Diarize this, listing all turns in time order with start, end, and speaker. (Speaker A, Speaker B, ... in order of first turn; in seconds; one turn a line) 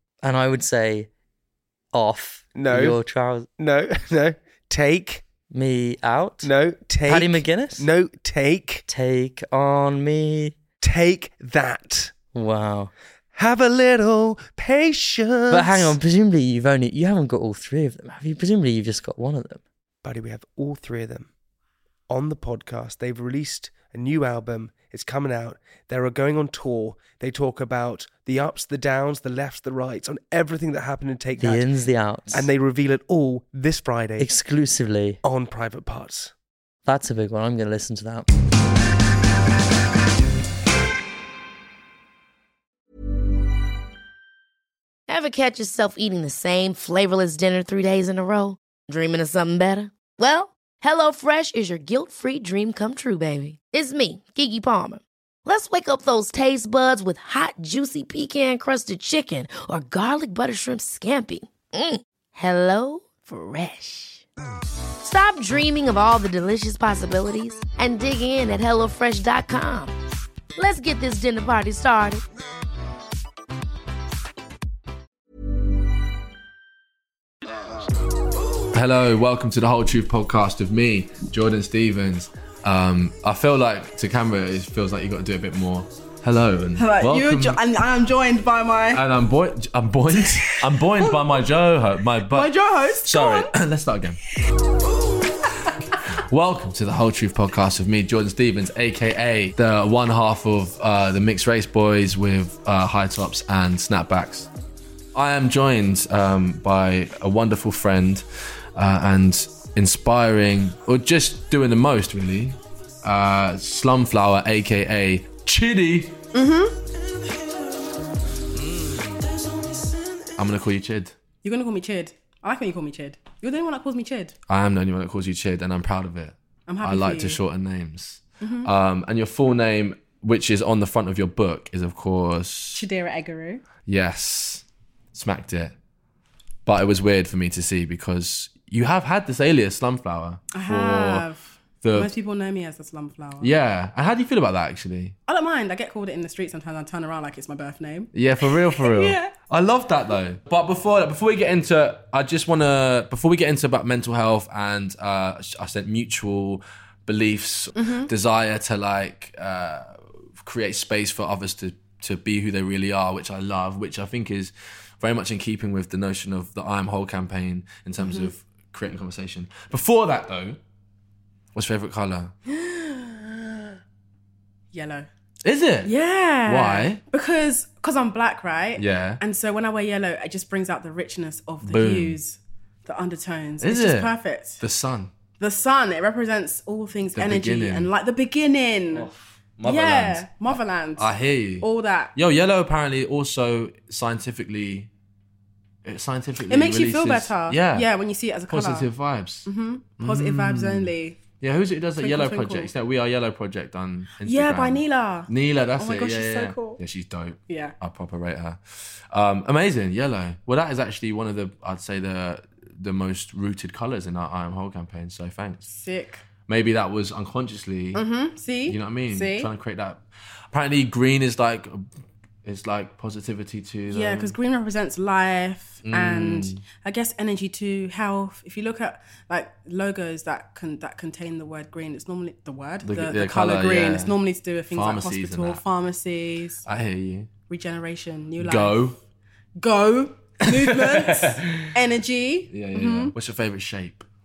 Speaker A: 0.2-1.1
Speaker A: 1.9-3.5
Speaker B: 2.5-3.0
Speaker B: 3.6-5.3
Speaker A: 5.5-6.5
Speaker B: 6.4-8.8
Speaker A: 7.0-7.8
Speaker A: 8.9-10.6
Speaker B: 10.8-12.1
Speaker A: 12.3-12.9
Speaker B: 13.3-15.9
Speaker A: 15.5-19.6
Speaker B: 20.0-21.3
Speaker B: 22.1-31.7
Speaker A: 31.4-32.5
Speaker B: 32.3-34.3
Speaker A: 34.2-35.2
Speaker B: 35.2-36.3
Speaker A: 36.8-38.3
Speaker C: 45.1-64.2
Speaker C: 65.0-69.9
Speaker C: 70.5-72.2
Speaker D: 78.7-87.6
Speaker E: 86.8-89.0
Speaker D: 88.9-94.2
Speaker E: 90.4-91.1
Speaker E: 92.3-93.5
Speaker D: 96.2-104.5
Speaker D: 105.1-108.2
Speaker D: 108.8-116.1
Speaker E: 116.3-116.7
Speaker D: 118.7-119.1
Speaker D: 120.3-121.2
Speaker E: 121.4-124.3
Speaker D: 124.5-132.8
Speaker E: 126.7-127.4
Speaker E: 128.4-128.7
Speaker E: 132.7-133.6
Speaker D: 133.9-135.7
Speaker D: 136.7-141.2
Speaker E: 140.5-143.5
Speaker D: 141.8-142.1
Speaker D: 143.4-145.2
Speaker E: 145.3-149.3
Speaker D: 148.1-170.6
Speaker E: 157.8-158.1
Speaker E: 168.0-168.3
Speaker D: 171.5-172.3
Speaker E: 172.5-173.6
Speaker E: 174.7-175.1
Speaker D: 175.4-175.9
Speaker E: 175.8-184.6
Speaker D: 176.4-177.0
Speaker D: 178.8-179.2
Speaker D: 181.6-182.2
Speaker D: 183.6-185.1
Speaker E: 185.4-189.1
Speaker D: 187.1-187.9
Speaker D: 188.9-194.9
Speaker E: 189.6-192.1
Speaker D: 195.8-197.9
Speaker E: 196.5-198.9
Speaker D: 198.5-215.7
Speaker E: 199.4-201.2
Speaker E: 202.0-202.7
Speaker E: 204.2-206.8
Speaker E: 207.5-207.7
Speaker E: 215.7-216.2
Speaker D: 216.5-218.0
Speaker E: 217.9-219.5
Speaker D: 218.7-221.8
Speaker D: 222.4-224.3
Speaker E: 223.9-236.6
Speaker D: 225.8-226.6
Speaker D: 232.8-234.1
Speaker D: 234.7-235.6
Speaker D: 236.7-237.3
Speaker E: 237.5-238.8
Speaker D: 238.4-239.0
Speaker E: 239.6-243.1
Speaker D: 240.4-241.7
Speaker D: 242.5-244.1